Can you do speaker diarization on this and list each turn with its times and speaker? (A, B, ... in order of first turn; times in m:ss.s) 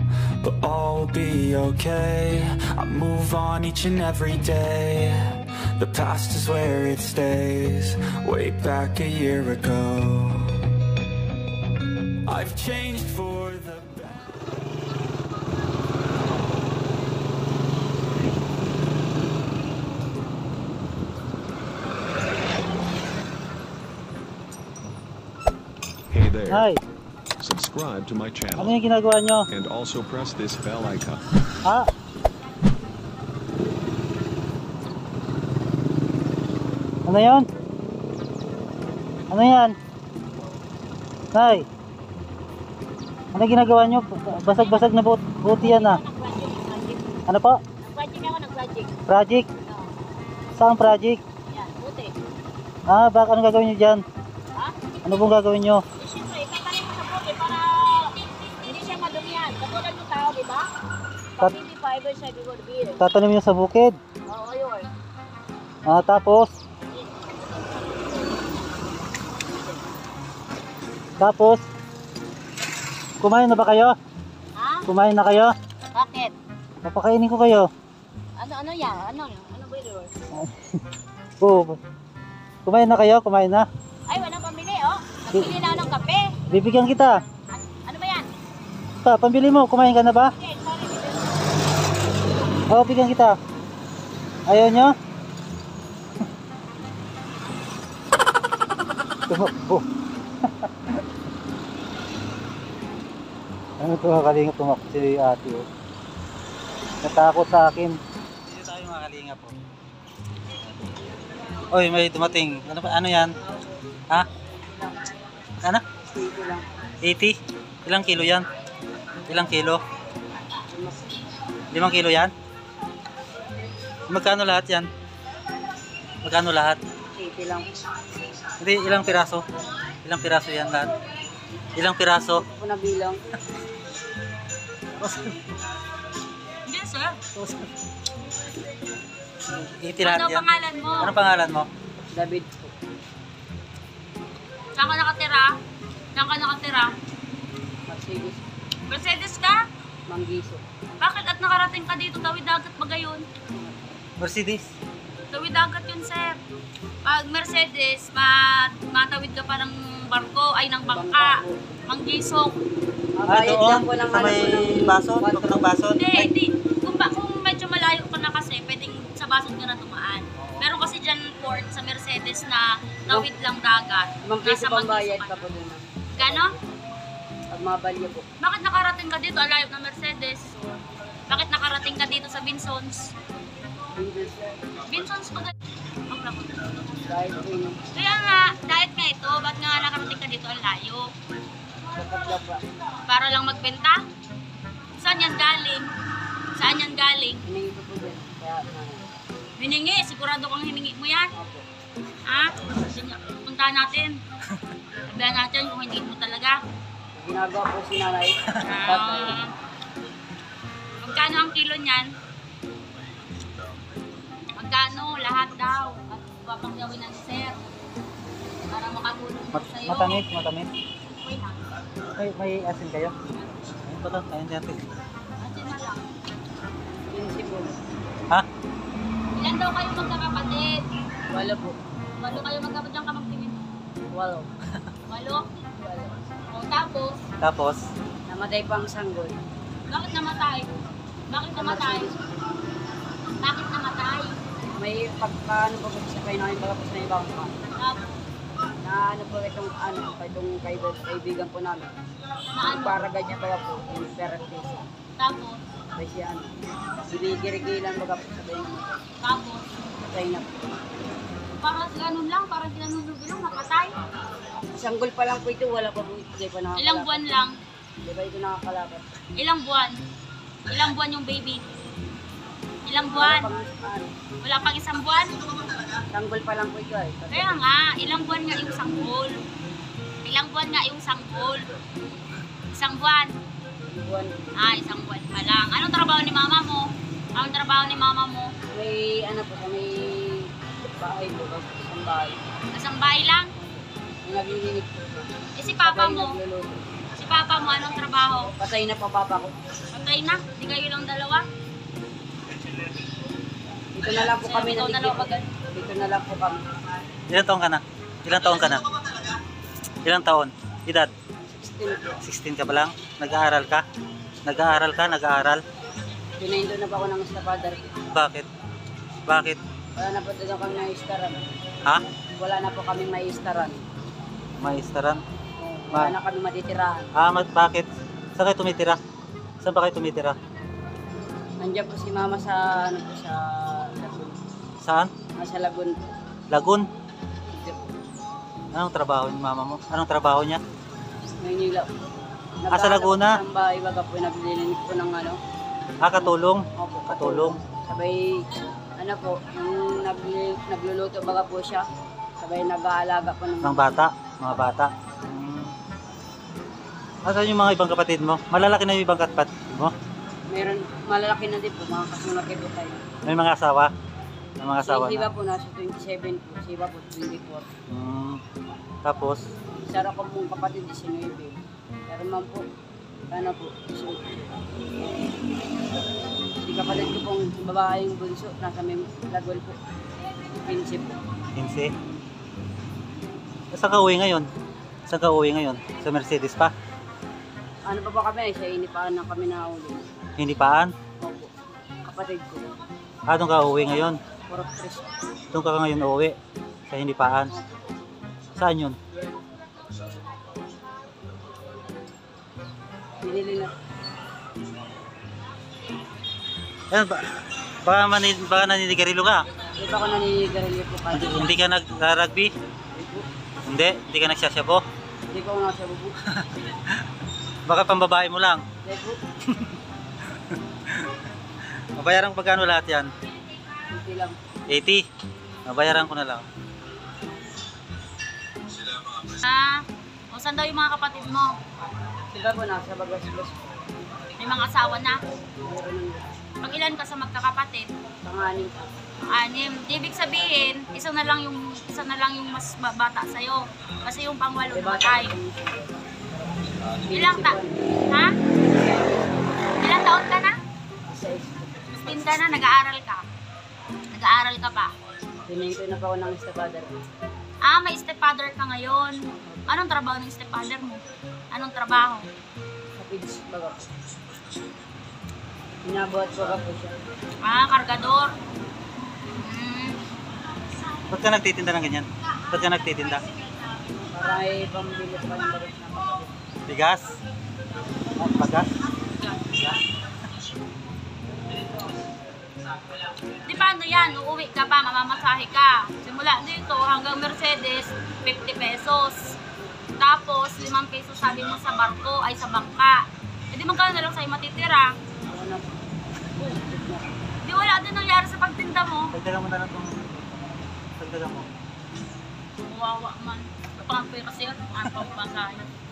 0:00.4-0:05.2 A
0:05.8-0:10.7 A
0:12.2-0:14.5 A
0:26.1-0:26.7 B
0:26.5-0:26.8 C
0:27.4-0:28.8 B
0:28.6-0:29.5 C
0:29.5-0:31.2 B
0:31.6-0:31.9 C
0:37.0-0:37.5 C
0:39.3-0:39.8 C
0:41.3-0:41.7 C
0:43.3-0:46.0 C
0:44.5-0:44.9 D
0:45.5-0:47.2 D
0:47.3-0:47.6 C
0:47.8-0:49.0 D
0:49.1-0:49.5 C
0:50.6-0:51.2 C
0:51.5-0:52.1 D
0:52.9-0:54.0 C
0:54.5-0:54.8 D
0:55.0-0:55.8 C
0:56.0-1:00.7 D
1:01.4-1:03.0 D
1:03.0-1:04.0 C
1:04.3-1:04.9 D
1:05.8-1:06.5 C
1:06.9-1:08.6 D
1:11.2-1:11.6 C
1:13.2-1:14.0 C
1:14.5-1:14.9 D
1:14.9-1:15.5 C
1:15.9-1:16.3 D
1:16.8-1:17.7 C
1:18.4-1:20.1 D
1:20.4-1:20.8 C
1:21.4-1:21.8 C
1:22.6-1:23.7 C
1:24.1-1:26.4 D
1:26.5-1:27.2 C
1:27.5-1:28.3 D
1:29.0-1:30.3 C
1:30.4-1:31.3 D
1:32.7-1:33.4 C
1:34.5-1:35.0 C
1:39.3-1:39.8 C
1:40.5-1:41.0 C
1:43.8-1:45.7 C
1:47.0-1:49.6 C
1:51.7-1:53.3 C
1:54.4-1:55.0 E
1:56.1-1:56.7 E
1:57.0-1:58.5 C
1:59.3-1:59.8 C
2:00.7-2:01.0 E
2:01.7-2:02.3 C
2:04.1-2:04.9 C
2:06.2-2:06.8 C
2:07.1-2:07.7 E
2:08.6-2:09.4 C
2:10.0-2:10.9 C
2:11.7-2:12.4 C
2:12.3-2:13.2 E
2:15.0-2:15.5 C
2:16.6-2:17.2 D
2:17.3-2:17.7 C
2:19.5-2:20.4 C
2:20.0-2:21.2 D
2:21.0-2:21.7 C
2:22.1-2:22.7 E
2:24.7-2:25.5 D
2:26.1-2:26.9 D
2:27.9-2:28.4 E
2:28.9-2:29.6 D
2:30.1-2:30.6 E
2:31.0-2:33.2 D
2:33.5-2:33.9 E
2:34.2-2:34.7 C
2:35.3-2:36.4 D
2:37.0-2:42.6 D
2:40.8-2:41.6 E
2:43.2-2:45.7 E
2:43.2-2:46.3 C
2:46.0-2:55.4 D
2:50.4-2:50.7 C
2:54.2-2:56.6 E
2:56.1-2:56.5 D
2:57.5-2:58.2 E
2:58.4-3:00.6 D
3:01.3-3:03.1 D
3:03.9-3:04.5 E
3:04.8-3:05.5 D
3:06.1-3:06.7 D
3:07.0-3:07.8 E
3:07.9-3:11.1 D
3:11.9-3:12.6 E
3:13.1-3:14.0 D
3:15.0-3:15.9 D
3:16.5-3:17.4 D
3:17.4-3:19.1 E
3:19.6-3:21.3 D
3:21.4-3:21.6 E
3:22.2-3:24.2 D
3:25.1-3:26.6 D
3:27.1-3:29.4 E
3:28.5-3:29.5 D
3:31.0-3:32.1 D
3:34.6-3:37.6 D
3:38.7-3:40.2 D
3:39.5-3:40.7 C
3:41.1-3:41.7 D
3:42.2-3:43.2 C
3:43.8-3:44.8 C
3:45.4-3:46.0 D
3:47.1-3:47.8 E
3:49.3-3:50.8 D
3:51.3-3:51.8 E
3:52.2-3:53.6 D
3:54.1-3:54.5 E
3:55.1-3:55.4 D
3:55.8-3:56.1 E
3:56.5-3:57.2 D
3:57.4-3:57.8 C
3:58.3-3:59.4 E
3:59.9-4:00.7 D
4:01.3-4:02.1 D
4:01.6-4:02.3 E
4:03.4-4:04.4 D
4:04.7-4:07.5 E
4:07.7-4:08.2 D
4:08.8-4:11.9 E
4:12.5-4:13.1 D
4:12.7-4:14.8 E
4:15.2-4:15.6 D
4:15.9-4:16.5 E
4:17.1-4:19.0 E
4:19.2-4:19.7 D
4:20.1-4:20.8 E
4:21.6-4:23.9 D
4:24.7-4:27.3 E
4:26.8-4:27.6 D
4:28.0-4:29.1 E
4:29.3-4:30.0 D
4:30.7-4:31.6 D
4:32.8-4:33.5 D
4:33.1-4:34.1 E
4:34.4-4:35.3 D
4:36.1-4:37.6 E
4:37.3-4:39.4 D
4:40.2-4:41.8 D
4:42.7-4:43.3 D
4:43.9-4:44.3 E
4:44.6-4:48.5 D
4:48.7-4:52.4 E
4:52.7-4:53.5 D
4:53.6-4:55.3 E
4:55.6-4:56.4 D
4:55.8-4:56.8 E
4:57.2-4:58.5 D
4:58.6-4:59.6 E
4:59.9-5:01.4 D
5:03.9-5:06.6 E
5:04.3-5:05.4 D
5:07.3-5:08.9 C
5:10.0-5:11.1 C
5:11.6-5:12.2 E
5:12.2-5:13.8 C
5:14.4-5:15.6 C
5:16.4-5:17.9 E
5:18.1-5:18.5 C
5:19.2-5:19.6 C
5:20.0-5:21.4 E
5:22.4-5:23.8 E
5:24.6-5:25.2 C
5:25.6-5:27.1 E
5:27.2-5:29.0 C
5:29.6-5:30.4 C
5:31.6-5:34.4 E
5:34.8-5:35.1 C
5:35.3-5:36.0 E
5:36.5-5:36.8 C
5:37.5-5:37.9 E
5:38.7-5:40.6 C
5:41.4-5:41.9 E
5:42.6-5:45.4 E
5:42.7-5:43.4 C
5:46.0-5:47.6 C
5:46.8-5:48.4 E
5:49.0-5:51.8 E
5:52.4-5:53.9 E
5:53.6-5:55.7 C
5:57.2-5:59.9 C
6:00.5-6:03.1 E
6:03.2-6:03.9 C
6:04.6-6:05.3 C
6:04.8-6:07.7 E
6:07.9-6:08.4 C
6:09.0-6:09.4 C
6:09.8-6:12.6 E
6:13.3-6:14.5 E
6:16.6-6:19.8 E
6:20.6-6:21.2 E
6:21.6-6:21.9 C
6:23.7-6:24.5 C
6:25.1-6:26.7 C
6:27.8-6:30.1 E
6:30.4-6:30.9 C
6:31.2-6:31.5 E
6:32.0-6:32.7 E
6:33.3-6:34.2 C
6:34.5-6:35.1 E
6:35.5-6:36.4 C
6:36.9-6:37.5 C
6:38.6-6:39.0 C
6:43.2-6:43.7 E
6:46.9-6:49.5 C
6:49.8-6:51.5 E
6:51.1-6:52.5 C
6:52.9-6:53.2 E
6:53.6-6:54.8 C
6:55.3-6:56.2 E
6:56.3-6:57.0 C
6:57.6-6:58.6 C
6:58.8-6:59.2 E
7:00.5-7:01.1 C
7:01.9-7:03.1 C
7:03.9-7:04.4 E
7:04.7-7:05.0 C
7:05.6-7:06.4 C
7:09.3-7:11.6 D
7:12.3-7:13.8 E
7:14.4-7:15.2 D
7:15.6-7:16.3 E
7:16.6-7:17.9 D
7:18.2-7:19.0 E
7:19.2-7:25.3 D
7:24.7-7:29.7 E
7:27.1-7:27.6 D
7:29.8-7:30.6 D
7:31.1-7:32.6 E
7:31.9-7:33.2 D
7:34.1-7:34.9 D
7:35.5-7:37.0 E
7:37.6-7:42.3 D
7:43.0-7:43.9 E
7:45.8-7:47.0 E
7:47.4-7:48.3 D
7:49.4-7:50.0 D
7:51.1-7:53.2 C
7:54.1-7:56.3 E
7:56.6-7:57.1 C
7:58.2-7:58.7 C
7:59.0-7:59.5 D
8:03.4-8:09.4 D
8:10.0-8:14.9 D
8:15.3-8:15.7 E
8:16.2-8:17.2 E
8:17.4-8:19.1 D
8:19.1-8:21.5 C
8:22.6-8:25.7 D